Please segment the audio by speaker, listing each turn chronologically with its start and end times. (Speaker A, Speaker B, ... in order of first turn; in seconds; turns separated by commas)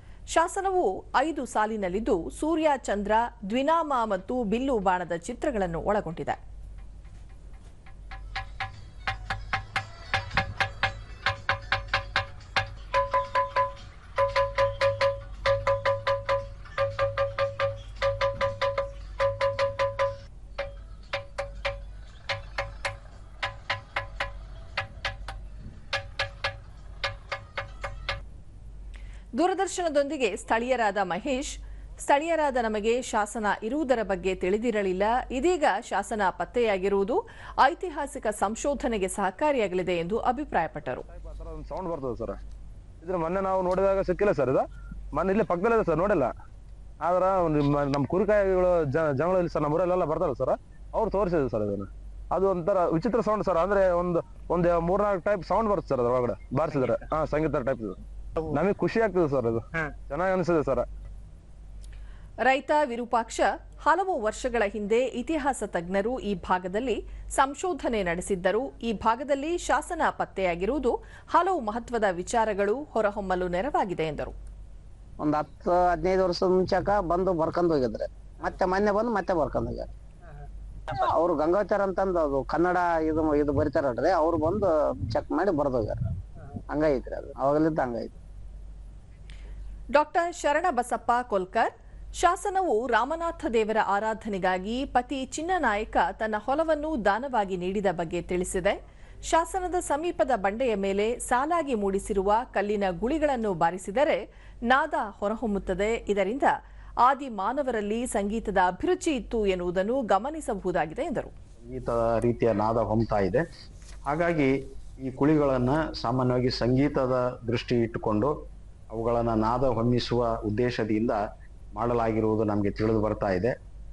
Speaker A: 0.3-6.4, Speaker A: 29.4-41.0, Speaker B: 41.1-42.4, Speaker B: 43.0-46.3, Speaker B: 47.0-60.9, Speaker A: 62.4-74.3, Speaker C: 75.2-79.9, Speaker C: 80.9-86.1, Speaker C: 86.7-88.2, Speaker A: 89.9-106.5, Speaker A: 107.0-111.3, Speaker D: 111.6-113.4, Speaker D: 114.1-114.5, Speaker D: 115.0-118.3, Speaker D: 118.9-121.2, Speaker D: 121.8-123.5